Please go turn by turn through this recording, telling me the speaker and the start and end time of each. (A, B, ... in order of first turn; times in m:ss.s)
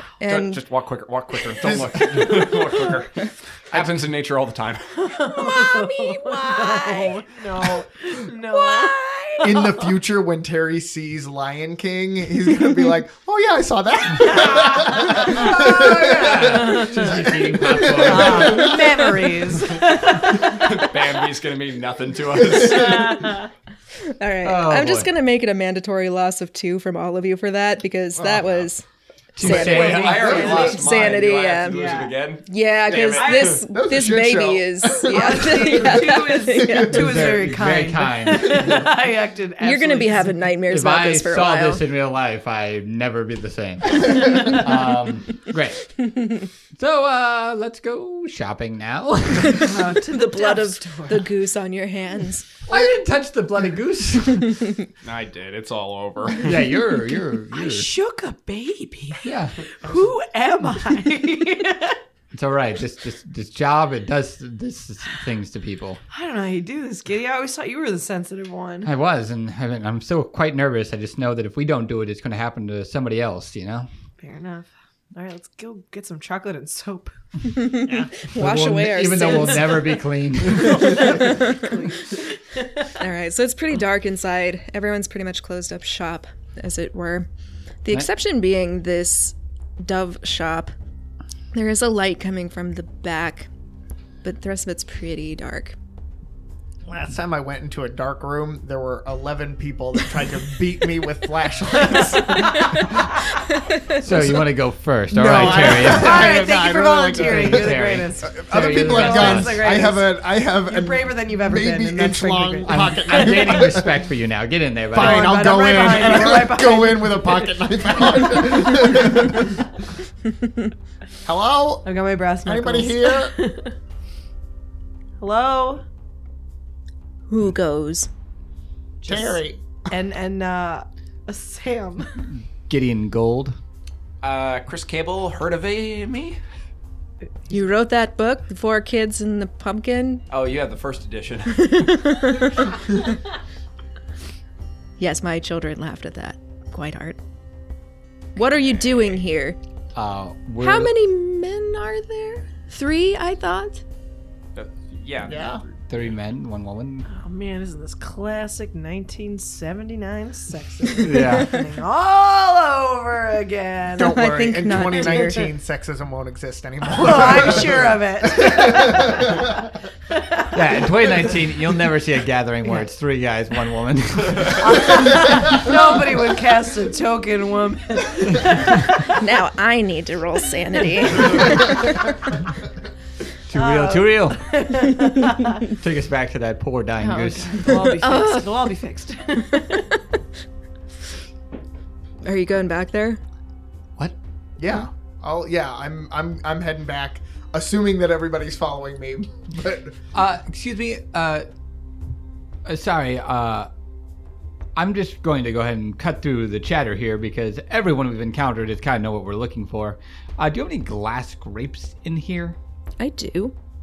0:00.2-0:00.6 A
0:00.2-0:04.8 B
0:01.6-0:02.3 C
0:04.9-0:09.9 D
0:05.3-0:07.2 A
0:08.5-0:09.4 A
0:09.4-0:19.0 C
0:15.2-0:17.0 D
0:15.3-0:18.9 E
0:17.9-0:20.7 D
0:20.4-0:23.4 B
0:23.0-0:23.4 D
0:24.2-0:28.8 A
0:24.4-0:25.1 E
0:28.2-0:28.6 C
0:29.4-0:30.4 E
0:29.4-0:31.8 A
0:29.4-0:33.6 B
0:29.7-0:30.9 C
0:31.6-0:32.2 D
0:32.5-0:37.0 A
0:33.1-0:33.6 D
0:33.7-0:36.9 C
0:35.0-0:40.5 D
0:36.9-0:38.8 E
0:39.6-0:41.8 A
0:40.7-0:49.8 E
0:49.5-0:51.3 D
0:50.0-0:52.6 A
0:52.7-0:54.8 E
0:55.0-0:56.7 B
0:56.4-0:57.9 E
0:57.5-1:02.0 D
0:59.2-0:59.6 E
1:02.3-1:06.0 E
1:06.1-1:08.9 D
1:08.8-1:13.9 E
1:14.2-1:17.1 D
1:17.5-1:20.0 A
1:17.9-1:21.3 E
1:20.6-1:22.8 D
1:20.9-1:21.7 A
1:22.9-1:27.3 A
1:27.8-1:30.7 A
1:31.5-1:33.5 A
1:34.2-1:35.8 A
1:36.8-1:43.0 C
1:44.0-1:46.4 E
1:44.0-1:44.4 C
1:45.1-1:53.9 C
1:45.4-1:53.7 D
1:47.1-1:49.6 E
1:52.7-1:55.5 E
1:54.9-1:59.6 C
1:54.9-1:57.4 D
2:01.2-2:03.4 C
2:01.8-2:03.7 D
2:05.2-2:05.8 D
2:07.3-2:08.1 A
2:09.0-2:12.3 D
2:09.0-2:09.6 C
2:12.6-2:13.6 E
2:14.2-2:16.4 B
2:17.5-2:20.2 A
2:20.3-2:21.9 B
2:21.6-2:23.0 A
2:25.0-2:27.2 A
2:28.4-2:29.6 A
2:29.9-2:30.9 E
2:30.6-2:33.8 A
2:34.6-2:35.6 B
2:35.2-2:35.6 C
2:35.9-2:37.1 E
2:37.1-2:44.2 D
2:41.0-2:41.6 E
2:44.0-2:49.6 C
2:44.0-2:45.5 A
2:46.8-2:49.4 D
2:50.5-2:54.8 E
2:54.6-2:59.2 D
2:59.1-3:02.0 A
3:03.5-3:04.9 E
3:03.5-3:05.6 D
3:05.7-3:08.0 E
3:07.0-3:09.9 D
3:07.7-3:08.5 A
3:12.2-3:13.2 A
3:14.6-3:20.0 C
3:20.1-3:21.5 E
3:22.6-3:23.7 E
3:24.8-3:32.6 E
3:33.0-3:33.5 A